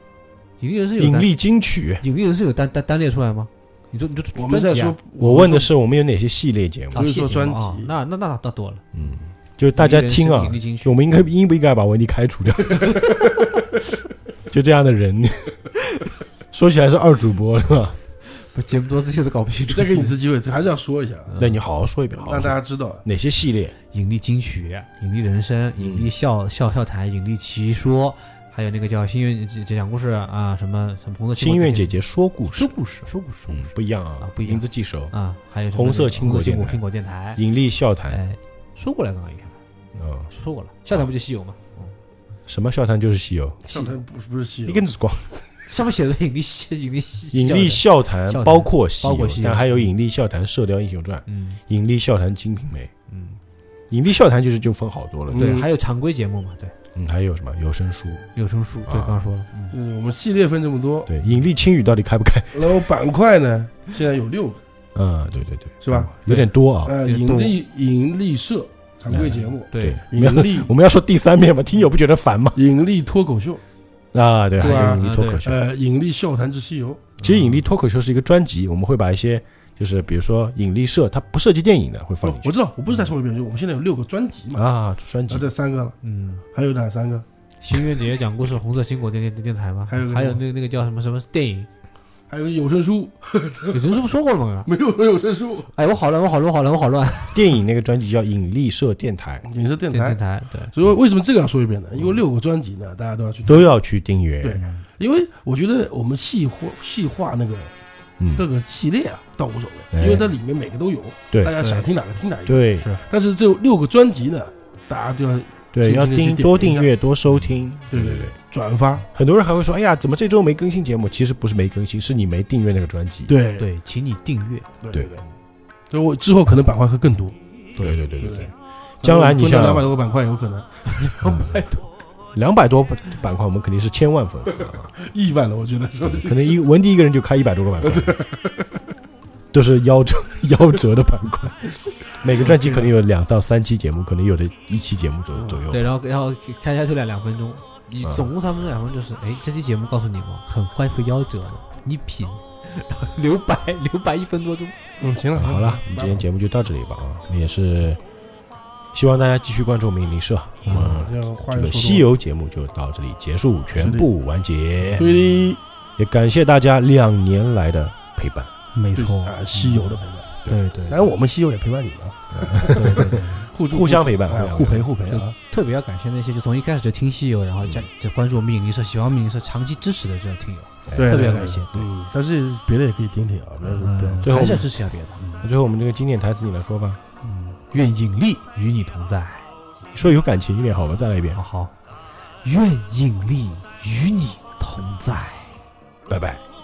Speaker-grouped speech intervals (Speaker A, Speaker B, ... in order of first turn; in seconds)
Speaker A: 0.6-1.3, 2.0-5.0, 6.9-8.8, 9.8-11.0, 12.8-13.3, 18.2-20.1, 21.3-21.6, 23.9-32.0, 32.5-37.4, 38.1-39.5, 40.3-41.9, 45.7-49.9, 51.3-51.6, 53.1-53.4, 55.3-56.7, 58.4-59.7, 67.0-67.5, 69.7-70.0, 74.6-75.5, 77.2-77.6, 86.0-86.4, 87.6-91.7, 93.7-94.7, 95.7-97.4, 99.9-100.7, 111.6-111.9, 123.6-124.7, 130.9-132.0, 145.7-154.7, 160.6-161.1, 168.7-171.1, 172.6-173.5, 175.1-181.9, 183.6-185.4, 187.2-189.5, 191.3-191.7, 192.4-195.6
Speaker B: 1.0-2.0, 5.2-7.0, 8.9-13.3, 14.5-15.6, 16.5-17.9, 21.4-23.7, 25.8-26.1, 31.4-32.8, 33.5-35.1, 35.7-36.8, 37.4-38.2, 39.9-40.3, 42.5-43.7, 44.6-45.3, 47.3-52.9, 53.9-55.5, 56.9-58.2, 58.9-59.1, 61.1-62.9, 64.9-67.0, 69.1-72.6, 74.1-75.6, 77.2-82.5, 84.5-85.5, 97.3-99.4, 103.5-104.6, 108.2-108.5, 109.9-110.3, 112.5-112.8, 115.7-118.3, 119.1-123.3, 127.8-129.9, 131.2-131.6, 132.3-134.9, 136.1-138.2, 139.5-145.8, 148.0-148.3, 155.3-158.0, 158.9-165.1, 166.0-168.5, 172.3-174.9, 180.9-181.2, 184.2-184.7, 185.4-187.0, 189.9-191.4, 196.1-196.4
Speaker C: 4.3-5.7, 6.9-7.9, 19.7-21.3, 22.2-23.0, 43.6-44.9, 55.3-55.7, 59.7-61.1, 62.5-64.6, 65.8-66.1, 66.8-70.7, 72.5-73.6, 74.6-77.1, 82.2-84.7, 85.3-86.0, 86.5-87.2, 89.9-90.4, 92.3-94.0, 94.7-95.7, 99.4-100.2, 100.7-103.7, 104.4-107.7, 108.3-116.9, 117.9-119.0, 123.3-123.7, 124.8-125.2, 125.9-127.3, 128.2-128.5, 129.0-130.7, 135.0-136.6, 137.8-138.5, 142.4-142.9, 145.4-145.6, 155.0-156.2, 160.7-162.1, 163.8-164.1, 164.9-165.6, 168.9-175.3, 180.9-184.7